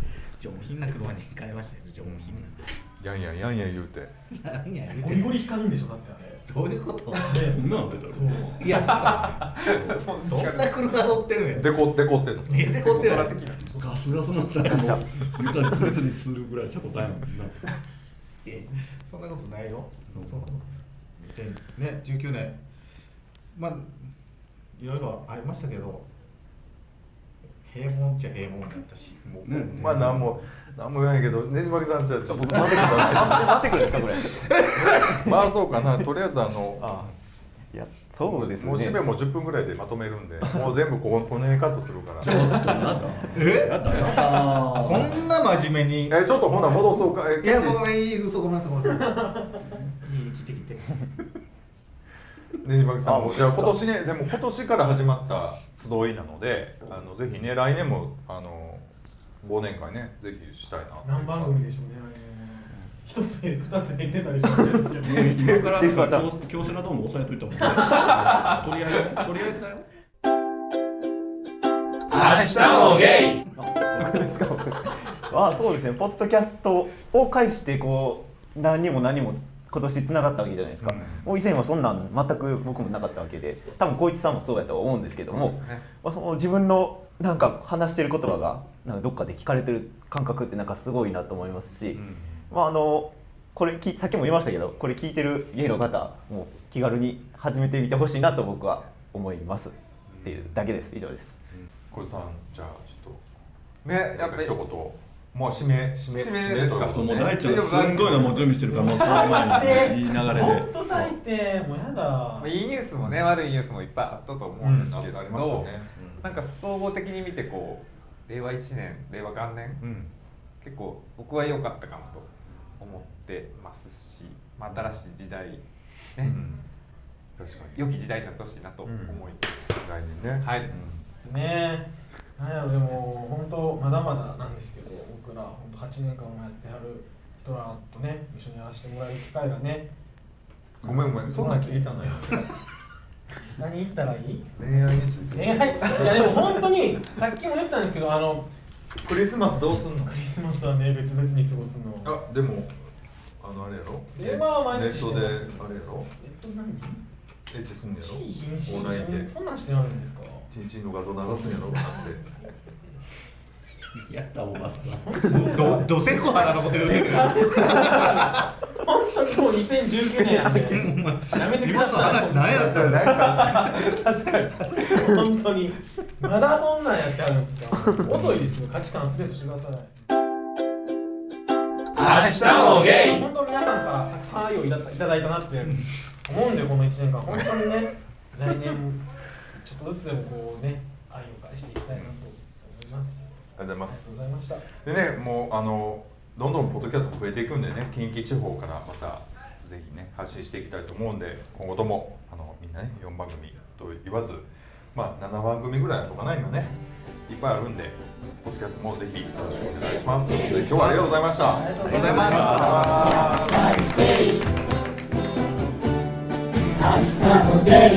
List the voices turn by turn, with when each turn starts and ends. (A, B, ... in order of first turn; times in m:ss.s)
0:00.4-0:02.7 A
0:02.0-0:02.5 B
0:03.0-0:04.1 B
0:04.3-0:05.4 A
0:05.0-0:06.4 C
0:06.3-0:07.5 A
0:07.2-0:08.7 C
0:07.4-0:08.7 D
0:08.5-0:11.7 A
0:08.8-0:11.1 E
0:09.7-0:10.0 D
0:11.6-0:13.0 B
0:12.5-0:13.4 A
0:12.6-0:13.9 E
0:13.7-0:17.8 D
0:14.7-0:16.0 F
0:18.4-0:20.7 A
0:21.2-0:22.6 A
0:23.5-0:24.1 A
0:24.8-0:26.1 A
0:27.6-0:30.0 A
0:29.2-0:33.9 B
0:29.4-0:30.3 D
0:32.3-0:34.4 F
0:34.0-0:35.1 A
0:34.8-0:37.1 B
0:35.1-0:35.4 F
0:36.8-0:37.1 F
0:37.7-0:39.1 F
0:38.2-0:42.5 B
0:40.4-0:40.7 F
0:42.2-0:45.2 D
0:43.3-0:46.2 A
0:46.1-0:47.8 B
0:47.4-0:49.2 A
0:48.9-0:49.6 C
0:49.7-0:51.0 A
0:52.6-1:01.6 B
0:53.0-0:53.9 F
1:01.0-1:05.7 C
1:05.0-1:09.9 D
1:05.4-1:06.3 F
1:12.2-1:41.4 F
1:20.8-1:21.2 B
1:25.2-1:25.9 E
1:32.0-1:32.5 B
1:40.1-1:40.6 B
1:41.6-1:43.2 B
1:43.8-1:44.6 E
1:43.9-1:47.4 B
1:46.1-1:49.8 E
1:46.8-1:51.1 D
1:48.7-1:52.5 C
1:52.4-1:59.8 E
1:53.0-1:53.3 B
1:54.6-1:56.4 B
1:59.8-2:00.1 B
2:00.6-2:05.6 E
2:04.7-2:05.0 B
2:06.2-2:06.7 B
2:07.4-2:07.9 B
2:07.8-2:10.7 E
2:08.8-2:09.2 B
2:09.8-2:11.1 B
2:11.2-2:19.9 C
2:20.8-2:22.4 B
2:20.8-2:22.5 C
2:23.6-2:28.5 C
2:24.6-2:26.6 B
2:29.0-2:30.2 B
2:29.9-2:32.2 C
2:32.0-2:32.8 B
2:33.4-2:36.1 B
2:34.1-2:37.0 C
2:37.5-2:39.3 B
2:38.0-2:40.5 C
2:40.5-2:42.2 B
2:41.2-2:43.1 C
2:43.9-2:45.7 D
2:44.9-2:59.9 C
2:45.2-2:48.4 A
2:50.2-2:50.7 F
2:50.7-2:53.6 A
2:52.6-2:53.9 B
2:58.0-2:58.5 B
3:02.0-3:09.0 C
3:09.6-3:14.6 C
3:13.6-3:14.1 B
3:14.7-3:33.8 B
3:30.5-3:33.6 C
3:31.8-3:32.8 A